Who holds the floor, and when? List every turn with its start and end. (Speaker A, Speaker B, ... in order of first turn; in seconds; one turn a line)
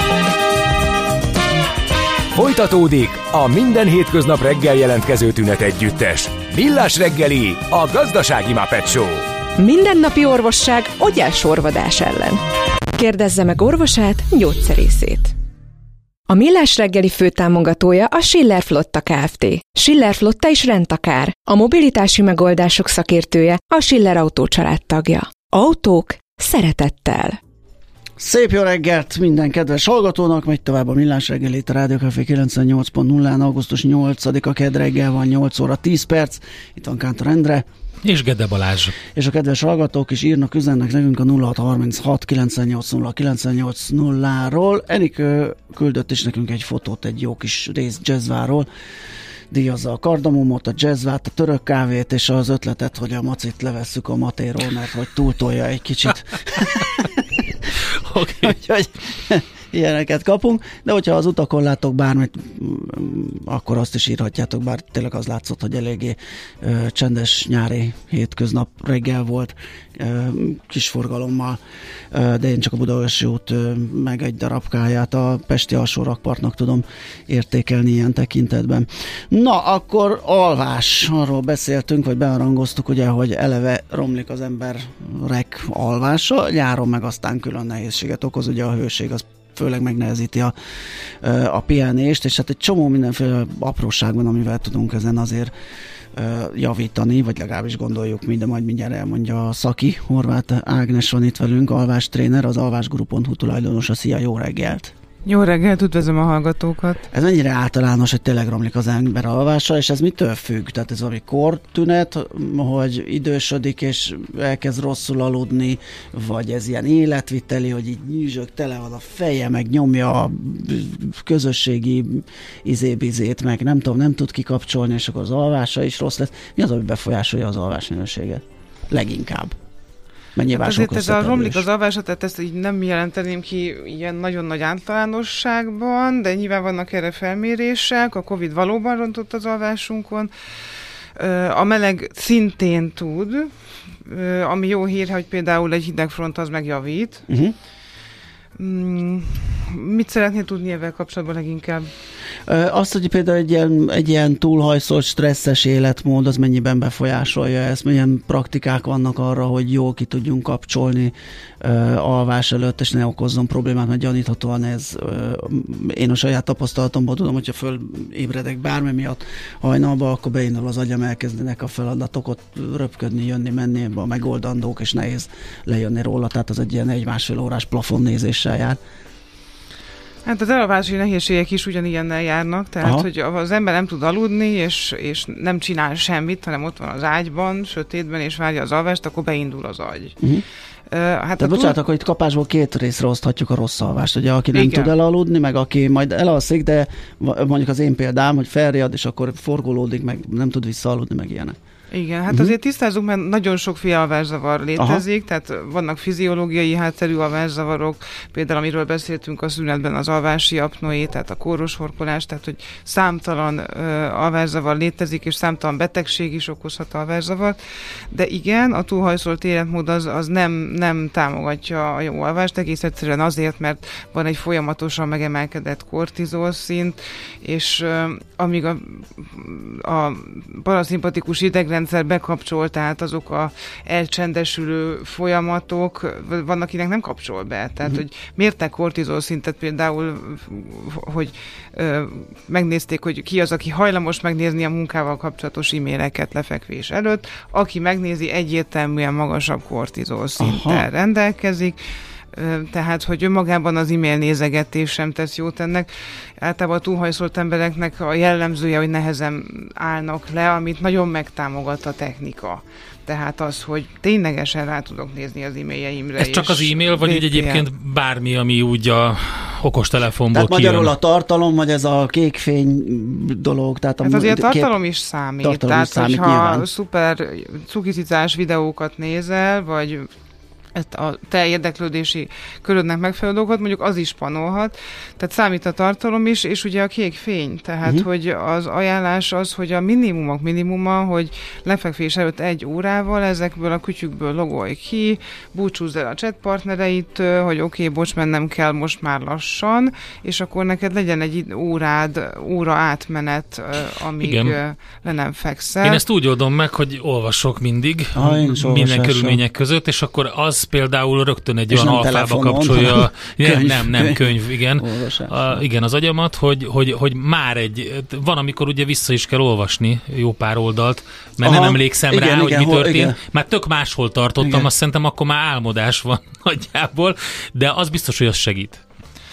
Speaker A: 2.4-9.3
Speaker B: 9.6-12.4
Speaker B: 12.9-15.3
Speaker B: 16.3-27.4
Speaker C: 28.2-37.7
Speaker D: 38.0-39.0
Speaker C: 39.1-48.7
Speaker C: 49.5-57.5
Speaker D: 58.0-58.6
Speaker C: 58.4-71.6
Speaker C: 72.1-90.5
Speaker C: 91.2-95.5
Speaker C: 96.2-104.9
Speaker E: 105.3-107.1
Speaker C: 107.1-129.6
Speaker C: 130.4-131.7
Speaker E: 130.5-140.3
Speaker E: 141.2-143.5
Speaker E: 144.1-147.3
Speaker C: 147.3-147.6
Speaker E: 148.6-151.9
Speaker C: 152.5-178.8
Speaker E: 180.2-190.2
Speaker E: 190.9-191.8
Speaker C: 191.4-201.6
Speaker E: 194.5-194.9
Speaker E: 201.9-217.6
Speaker C: 204.8-205.0
Speaker E: 218.1-251.8
Speaker C: 250.4-250.9
Speaker E: 252.3-267.6
Speaker D: 266.2-270.9
Speaker C: 270.3-274.7
Speaker E: 274.0-280.1
Speaker C: 275.4-276.7
Speaker E: 280.8-306.0
Speaker D: 304.2-304.6
Speaker D: 305.8-328.8
Speaker C: 308.1-309.4
Speaker C: 311.7-315.6
Speaker C: 321.4-323.2
Speaker C: 324.4-324.7